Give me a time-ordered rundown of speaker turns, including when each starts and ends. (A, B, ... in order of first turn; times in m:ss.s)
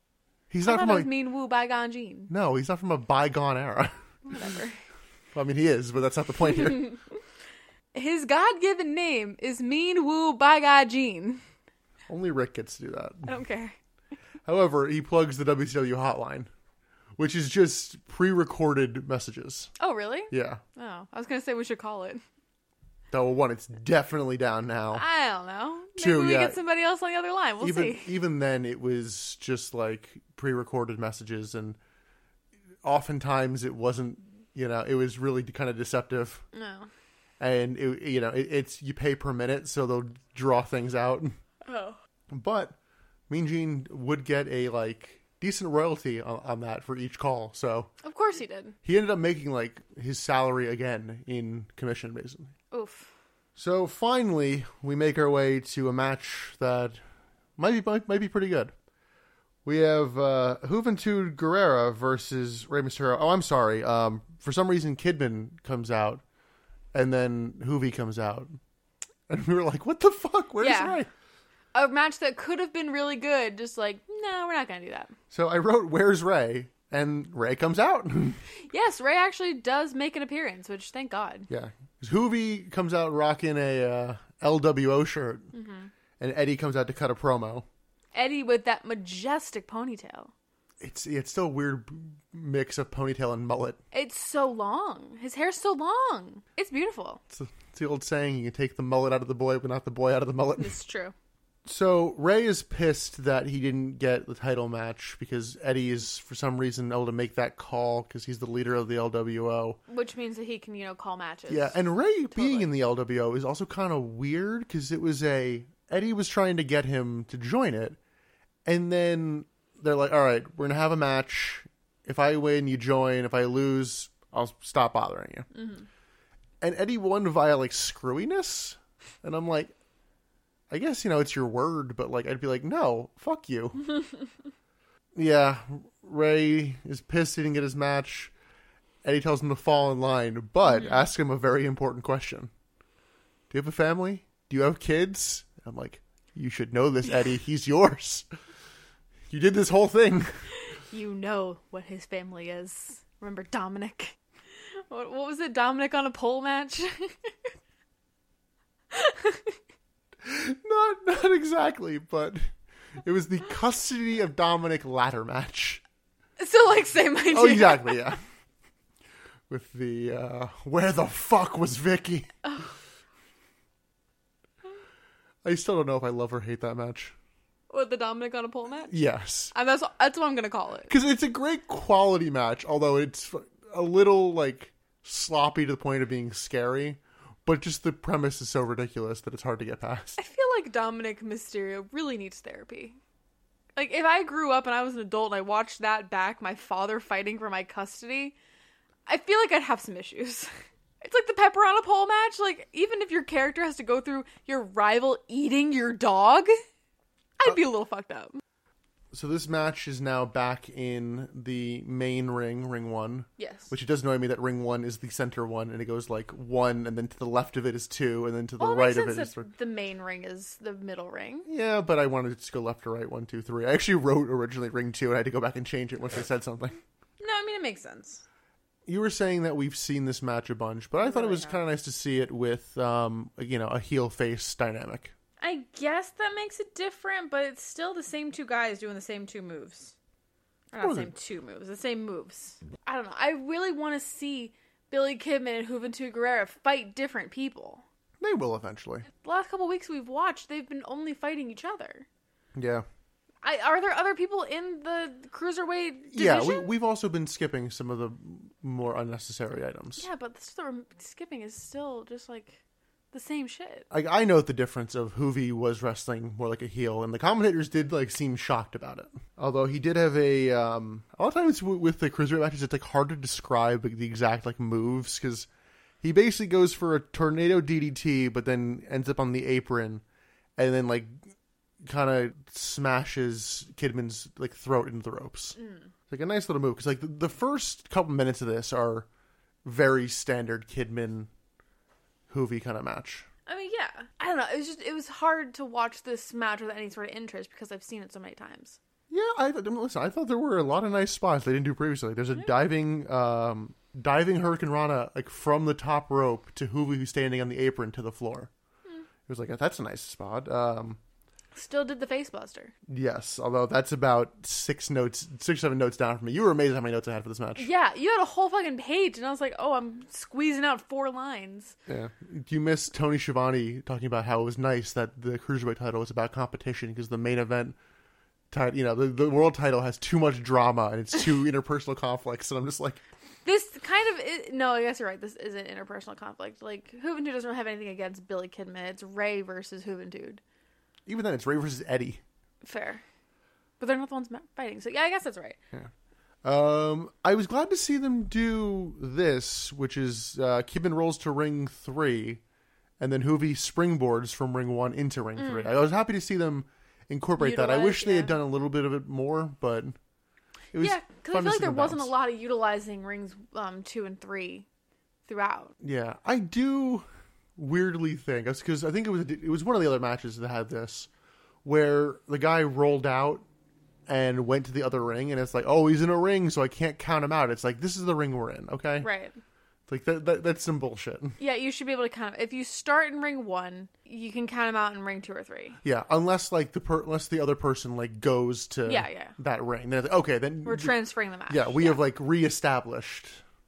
0:00.5-0:01.1 A
0:00.6-0:02.3 B
0:02.3-0:03.9 A
0:04.2-0:04.8 B
0:05.3-0:07.0 A
0:06.5-0:07.0 B
0:07.9-0:11.4 B
0:12.1-0:13.3 A
0:13.2-0:13.8 B
0:14.4-0:16.5 A
0:17.2-0:19.7 A
0:19.8-0:22.2 B
0:20.3-0:20.6 A
0:23.1-0:25.0 A
0:24.9-0:28.1 B
0:26.0-0:26.6 A
0:27.6-0:31.8 A
0:32.8-0:36.4 A
0:36.5-0:36.9 B
0:37.4-0:41.3 A
0:41.6-0:42.0 B
0:42.3-0:42.8 A
0:43.3-0:47.9 A
0:48.0-0:48.7 B
0:48.8-0:52.5 A
0:52.7-0:53.1 B
0:53.6-0:57.0 A
0:57.6-0:58.7 A
0:59.6-1:06.2 A
1:06.9-1:08.6 A
1:09.3-1:11.1 A
1:10.6-1:11.0 B
1:11.7-1:15.1 B
1:15.3-1:18.4 A
1:18.7-1:21.5 B
1:21.5-1:25.5 A
1:25.5-1:25.9 B
1:26.2-1:27.6 A
1:28.1-1:30.3 B
1:30.8-1:33.8 A
1:33.9-1:37.2 B
1:37.3-1:40.7 A
1:40.6-1:41.1 B
1:41.6-1:49.8 A
1:49.9-1:52.7 B
1:51.5-1:58.0 A
1:58.6-2:05.5 A
2:05.5-2:05.8 B
2:06.6-2:09.7 A
2:10.7-2:13.9 A
2:15.2-2:18.3 A
2:19.0-2:22.5 A
2:20.6-2:21.1 B
2:23.5-2:28.2 A
2:29.3-2:30.3 A
2:30.6-2:34.2 B
2:34.9-2:37.3 B
2:38.9-2:39.6 B
2:40.2-2:42.4 A
2:43.0-2:45.8 A
2:46.4-2:48.1 B
2:47.3-2:48.2 A
2:49.5-2:52.3 A
2:52.4-2:52.7 B
2:55.4-2:57.1 A
2:57.7-2:58.9 B
2:58.9-2:59.5 A
2:59.5-3:00.9 B
3:00.9-3:10.2 A
3:10.2-3:13.0 B
3:13.8-3:18.3 B
3:19.1-3:20.5 B
3:21.0-3:26.5 B
3:27.4-3:28.4 B
3:29.1-3:39.5 A
3:33.4-3:33.7 B
3:38.6-3:41.5 B
3:41.5-3:46.8 A
3:47.2-3:48.2 B
3:48.8-3:55.1 A
3:51.0-3:51.6 B
3:55.4-3:59.9 B
4:00.7-4:07.8 B
4:00.8-4:01.1 A
4:08.2-4:09.1 A
4:09.2-4:12.0 B
4:12.5-4:12.8 A
4:13.4-4:16.7 B
4:16.1-4:20.1 A
4:20.0-4:22.6 B
4:23.1-4:23.9 B
4:23.9-4:35.5 A
4:36.0-4:40.0 A
4:40.6-4:41.2 A
4:41.8-4:45.6 A
4:45.6-4:45.9 B
4:46.1-4:49.1 A
4:49.6-4:51.3 A
4:52.3-4:53.3 A
4:53.5-4:58.8 B
4:59.1-5:08.5 A
5:09.3-5:11.0 A
5:11.5-5:12.7 B
5:12.9-5:17.7 A
5:17.6-5:21.8 B
5:21.9-5:27.8 A
5:28.5-5:33.0 A
5:33.4-5:40.4 B
5:41.1-5:42.2 A
5:42.6-5:43.0 B
5:43.8-5:45.6 B
5:46.4-5:52.4 A
5:53.0-5:59.9 A
5:55.4-5:55.7 B
5:57.4-5:58.4 B
6:00.7-6:02.1 A
6:00.8-6:04.6 B
6:05.3-6:05.7 B
6:05.8-6:07.0 A
6:07.6-6:11.1 A
6:11.6-6:13.4 A
6:14.1-6:19.1 A
6:19.0-6:19.4 B
6:19.9-6:21.4 A
6:21.4-6:25.8 B
6:25.8-6:30.9 A
6:28.8-6:29.4 B
6:30.6-6:32.0 B
6:31.5-6:33.4 A